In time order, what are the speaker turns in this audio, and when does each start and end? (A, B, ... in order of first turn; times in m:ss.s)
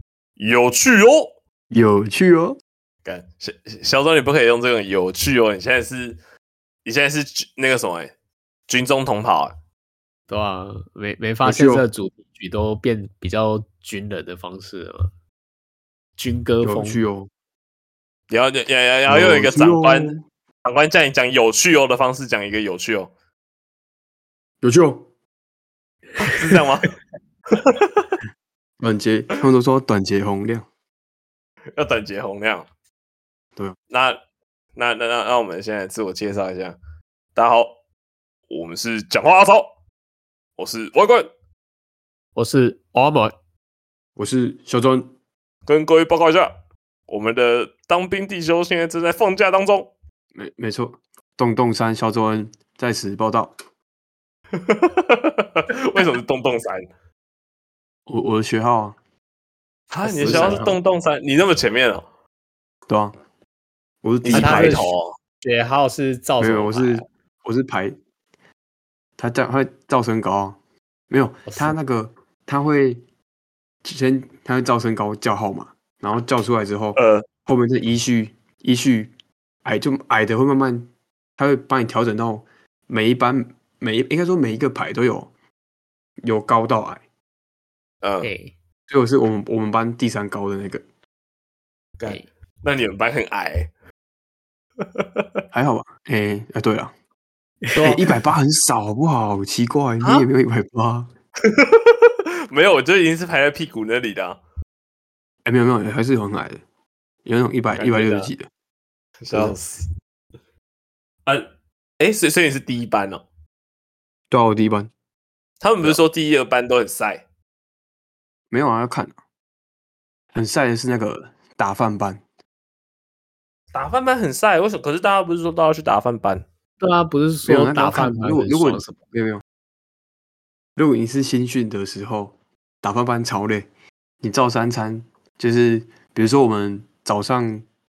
0:00.4-0:01.3 A
0:01.7-0:02.6 B
0:03.0-0:06.2 A
0:06.8-0:08.1 A
0:08.7-0:09.5 A
0:10.3-0:15.1 C
0:11.4-0:11.8 B
0:16.2-0:17.0 C
0:16.6-0:17.3 B
0:18.3-0:23.1 A
0:19.1-0:20.2 B
0:24.6-0:25.0 B
0:26.2-0:27.0 A
0:27.5-0:28.1 A
0:28.8-0:30.7 B
0:31.7-0:32.7 A
0:33.9-0:34.2 A
0:34.7-0:36.8 A
0:37.4-0:37.7 A
0:38.5-0:39.7 A
0:40.6-0:41.3 A
0:42.4-0:43.3 C
0:44.2-0:45.1 B
0:45.7-0:46.5 A
0:47.1-0:49.9 A
0:50.3-0:53.6 B
0:54.5-0:56.9 A
0:58.1-0:59.0 B
0:59.9-1:02.0 A
1:00.0-1:00.8 B
1:02.9-1:03.2 B
1:04.0-1:04.8 B
1:04.2-1:05.2 A
1:04.3-1:07.0 C
1:06.4-1:08.0 B
1:09.2-1:10.6 B
1:11.1-1:13.0 B
1:11.5-1:11.8 C
1:13.8-1:19.1 B
1:17.0-1:17.2 A
1:19.6-1:25.3 B
1:26.2-1:27.0 B
1:28.0-1:28.3 A
1:28.2-1:28.5 C
1:28.9-1:30.8 B
1:32.0-1:33.7 A
1:34.8-1:35.2 A
1:35.5-1:36.9 B
1:37.6-1:38.0 C
1:37.8-1:41.1 B
1:40.0-1:40.3 A
1:41.4-1:44.4 A
1:45.4-1:46.6 B
1:47.2-1:48.5 B
1:47.8-1:48.3 A
1:49.2-1:49.9 A
1:49.3-1:49.6 B
1:52.0-1:53.2 A
1:54.3-1:54.9 B
1:55.6-1:57.2 A
1:58.5-1:59.2 B
2:00.3-2:02.2 B
2:03.7-2:06.4 A
2:06.8-2:09.0 C
2:07.4-2:09.4 B
2:10.8-2:13.7 B
2:14.2-2:17.6 B